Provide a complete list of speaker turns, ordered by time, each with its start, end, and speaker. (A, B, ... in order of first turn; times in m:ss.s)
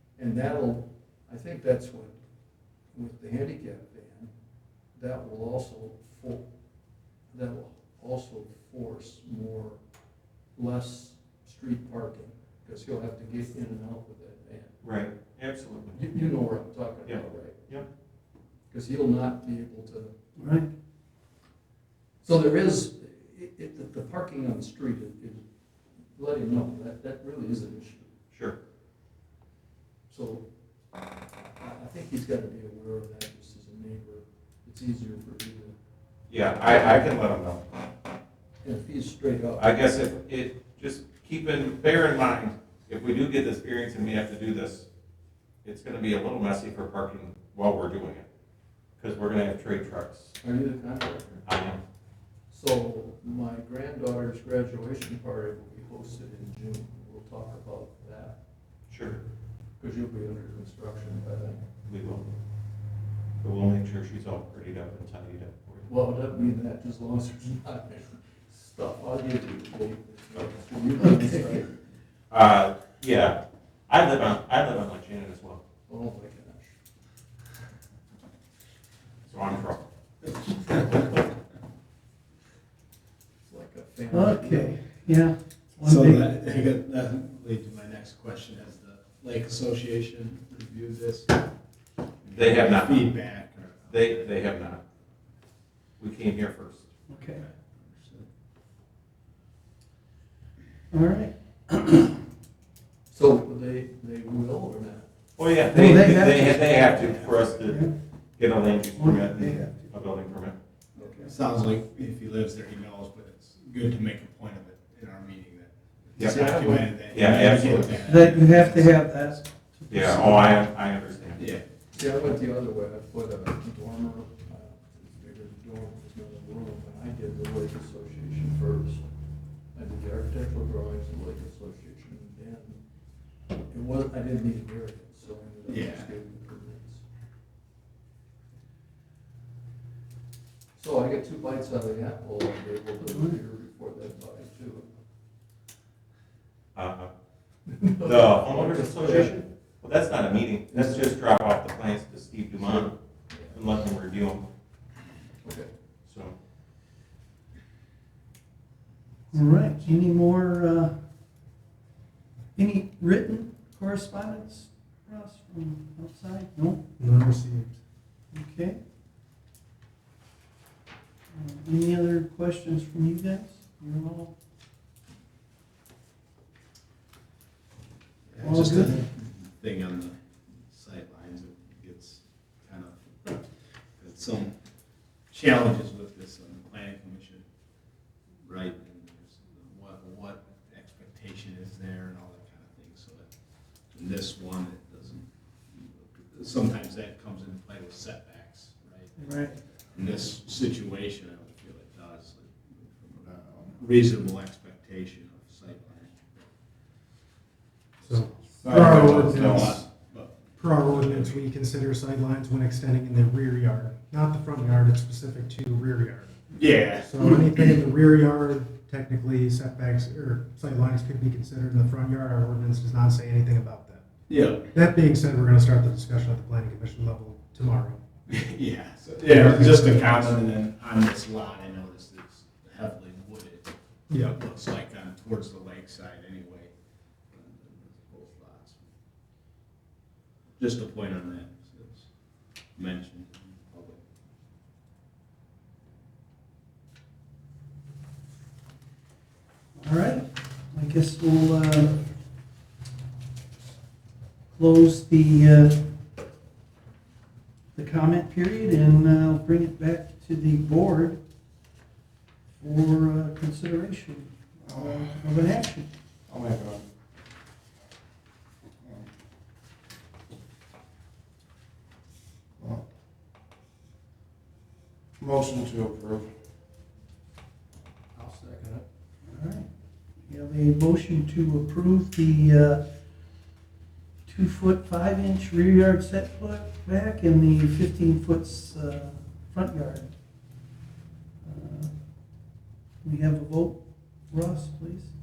0:00.2-0:02.2 A
0:02.9-0:04.3 A
0:04.9-0:06.4 A
0:07.3-0:09.8 A
0:10.6-0:14.8 A
0:14.8-0:16.3 B
0:15.9-0:17.8 A
0:17.0-0:17.8 B
0:18.7-0:20.1 A
0:20.4-0:20.7 C
0:22.2-0:25.4 A
0:26.2-0:28.1 A
0:30.1-0:30.5 A
0:31.6-0:35.7 A
0:36.3-0:37.6 B
0:38.6-0:39.7 A
0:39.6-0:44.8 B
0:45.6-0:48.2 B
0:49.0-0:50.3 B
0:50.4-0:51.4 A
0:51.4-0:51.8 B
0:52.5-0:58.4 A
0:58.9-0:59.2 B
0:59.8-1:01.6 A
1:01.8-1:02.2 B
1:03.4-1:05.9 B
1:05.9-1:11.7 A
1:12.3-1:13.4 B
1:13.9-1:15.6 B
1:15.9-1:16.8 A
1:19.2-1:19.8 B
1:20.5-1:20.9 D
1:23.4-1:24.8 A
1:24.1-1:26.3 C
1:25.8-1:31.4 D
1:32.2-1:34.5 D
1:32.3-1:33.1 B
1:33.9-1:34.8 B
1:36.0-1:36.9 B
1:37.1-1:37.4 C
1:37.3-1:38.2 D
1:40.9-1:42.2 C
1:43.1-1:45.1 A
1:45.4-1:47.9 B
1:45.6-1:47.9 C
1:47.0-1:47.3 D
1:48.4-1:50.6 B
1:48.9-1:49.9 C
1:51.0-1:51.3 A
1:51.2-1:59.4 D
1:56.2-1:58.3 B
1:56.2-1:57.0 A
1:58.0-2:00.5 C
1:59.9-2:01.5 B
2:01.4-2:01.6 D
2:01.9-2:09.0 A
2:09.7-2:12.8 A
2:13.7-2:17.0 A
2:15.7-2:16.1 D
2:20.8-2:25.0 A
2:26.7-2:27.1 B
2:27.7-2:29.4 A
2:28.0-2:33.0 B
2:30.7-2:31.1 A
2:32.6-2:33.5 A
2:33.5-2:34.4 B
2:35.4-2:35.7 A
2:36.0-2:36.3 B
2:39.3-2:40.9 C
2:42.6-2:46.8 C
2:47.0-2:47.8 E
2:48.3-2:48.8 C
2:51.3-2:54.3 C
2:58.3-3:04.5 D
2:58.4-2:59.1 C
3:05.3-3:07.4 D
3:08.4-3:13.2 D
3:13.9-3:19.1 D
3:19.2-3:19.6 C
3:19.7-3:26.3 D
3:28.0-3:31.4 D
3:28.1-3:29.8 E
3:30.6-3:44.0 E
3:36.5-3:37.8 D
3:44.3-3:44.7 D
3:44.7-3:48.0 E
3:48.3-3:56.7 D
3:49.2-3:50.4 E
3:57.3-3:58.9 D
4:00.6-4:02.1 D
4:02.7-4:04.0 D
4:09.8-4:12.0 C
4:14.5-4:15.8 C
4:17.7-4:21.2 C
4:22.6-4:25.9 C
4:24.7-4:25.2 F
4:26.3-4:26.8 F
4:35.2-4:36.3 F
4:38.1-4:38.8 A
4:39.3-4:39.7 C
4:40.2-4:42.8 C
4:44.2-4:50.1 C
4:51.4-4:51.9 C
4:53.0-4:55.1 C